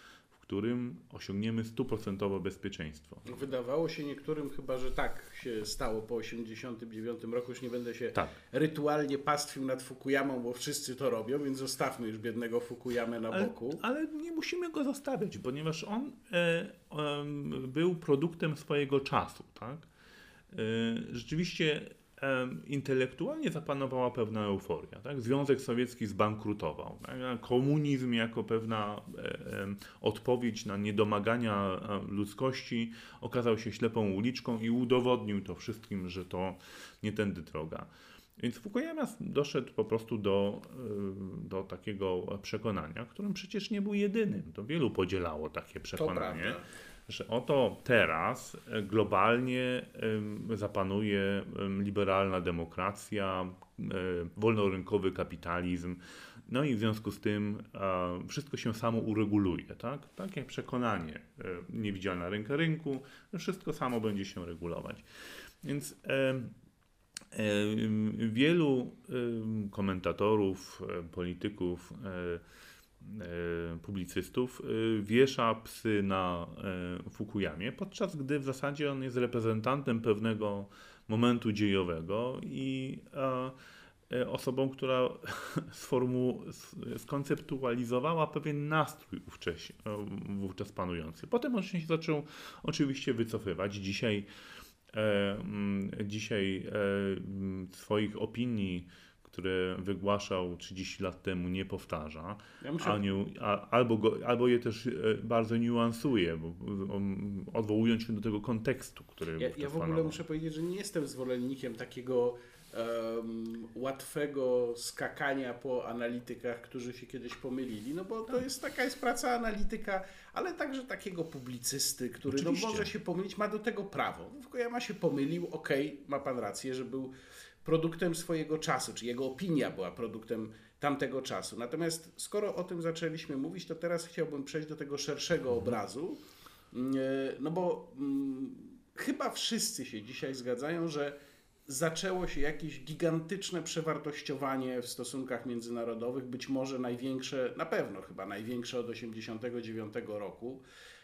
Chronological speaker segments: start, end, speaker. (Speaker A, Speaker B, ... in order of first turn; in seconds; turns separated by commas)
Speaker A: 0.3-3.4, Speaker B: 3.2-13.8, Speaker A: 13.3-19.9, Speaker A: 20.5-66.5, Speaker B: 46.0-46.7, Speaker A: 67.3-72.4, Speaker A: 73.0-83.6, Speaker A: 84.1-94.3, Speaker A: 94.9-110.2, Speaker B: 102.6-103.0, Speaker B: 109.4-127.1, Speaker A: 122.3-122.9, Speaker B: 127.6-136.2, Speaker B: 136.7-150.6